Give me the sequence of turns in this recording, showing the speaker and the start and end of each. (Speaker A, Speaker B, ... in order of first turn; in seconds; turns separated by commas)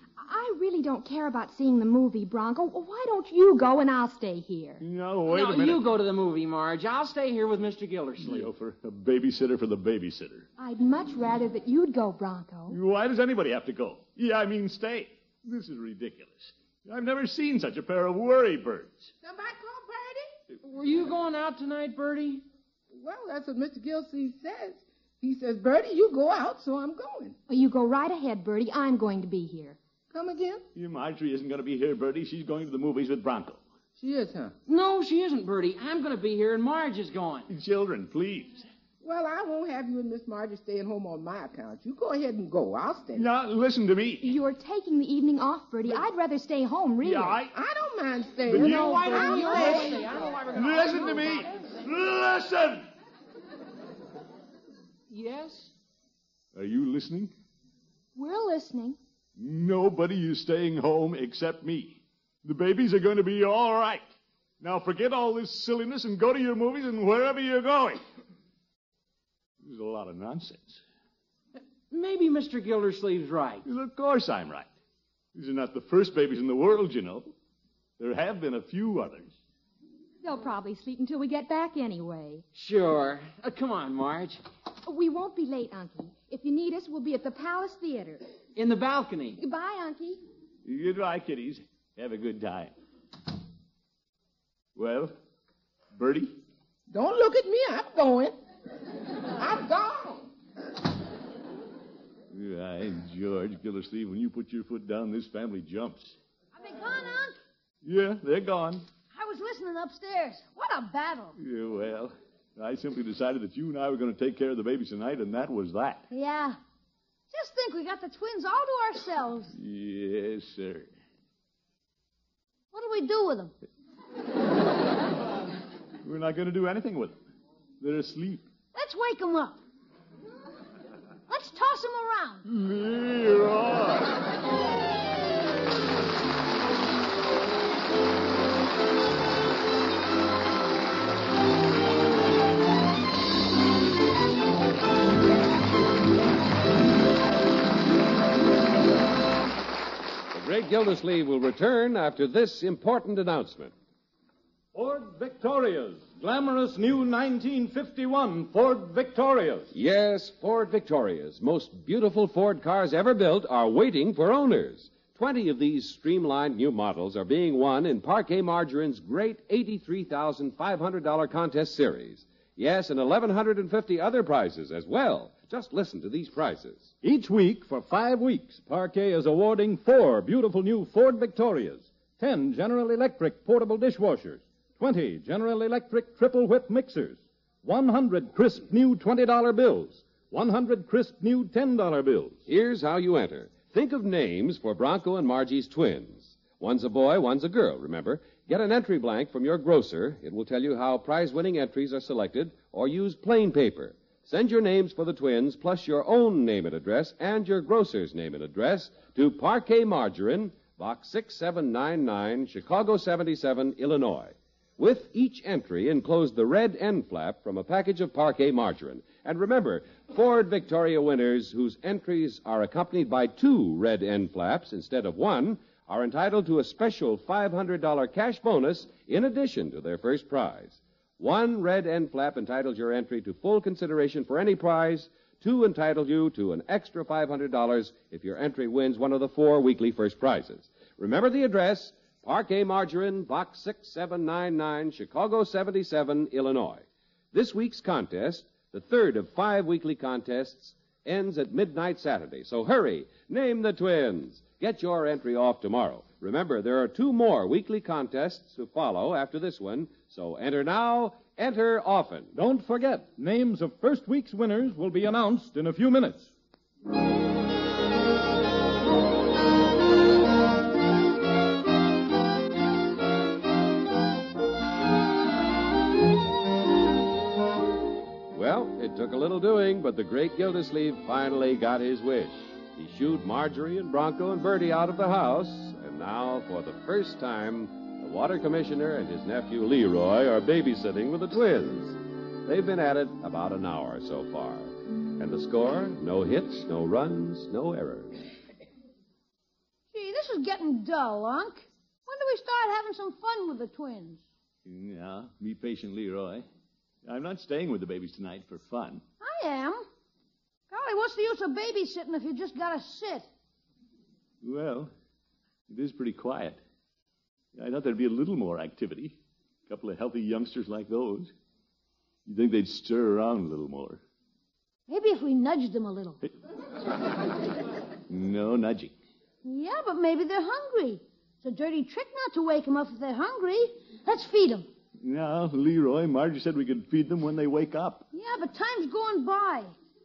Speaker A: 0.2-4.8, Speaker B: 4.8-5.8, Speaker C: 5.2-8.5, Speaker B: 8.2-10.5, Speaker A: 10.6-12.8, Speaker B: 12.7-19.1, Speaker D: 19.2-20.4, Speaker C: 20.6-22.4, Speaker D: 22.9-27.4, Speaker A: 27.5-29.8, Speaker D: 30.1-30.6, Speaker B: 30.7-33.6, Speaker D: 34.0-34.5, Speaker C: 34.7-37.5, Speaker B: 37.5-38.6, Speaker D: 39.0-43.3, Speaker B: 43.1-44.3, Speaker A: 44.2-47.4, Speaker B: 47.0-47.5, Speaker D: 47.5-49.2, Speaker B: 48.5-50.0, Speaker C: 48.5-51.7, Speaker A: 49.1-50.0, Speaker B: 50.5-52.9, Speaker C: 55.1-55.7, Speaker B: 56.5-57.3, Speaker A: 58.1-59.0, Speaker B: 59.4-64.0, Speaker B: 64.6-68.0, Speaker B: 69.6-70.8, Speaker C: 71.9-73.7, Speaker B: 73.7-74.7, Speaker B: 75.3-77.3, Speaker B: 78.0-79.3, Speaker A: 80.2-82.4, Speaker C: 82.5-84.4, Speaker A: 84.8-88.2, Speaker C: 88.6-89.4, Speaker A: 89.4-90.2, Speaker B: 90.7-92.7, Speaker B: 94.8-95.2, Speaker B: 95.9-96.4, Speaker D: 96.9-98.4, Speaker D: 99.2-100.3, Speaker B: 102.3-106.2, Speaker E: 106.5-107.4, Speaker B: 107.8-108.8, Speaker E: 109.1-111.4, Speaker B: 111.4-116.1, Speaker E: 116.1-116.6, Speaker E: 117.3-119.5, Speaker B: 119.5-120.9, Speaker E: 122.7-123.5, Speaker B: 126.0-127.2, Speaker B: 127.8-128.5, Speaker E: 128.7-129.6, Speaker E: 131.3-132.4, Speaker B: 132.4-134.2, Speaker F: 150.3-153.7, Speaker G: 154.7-159.7, Speaker F: 159.7-176.9, Speaker G: 177.0-192.4, Speaker F: 192.5-262.3, Speaker G: 262.3-266.3, Speaker F: 278.3-298.2, Speaker E: 299.9-304.2, Speaker B: 304.6-306.4, Speaker B: 307.1-309.0, Speaker E: 309.2-309.8, Speaker E: 310.7-313.3, Speaker B: 314.4-314.9, Speaker B: 315.7-316.6, Speaker B: 317.6-321.3, Speaker B: 322.3-324.0, Speaker E: 324.9-326.2, Speaker B: 328.1-328.9, Speaker E: 329.4-334.7, Speaker B: 335.0-338.1, Speaker E: 338.1-339.7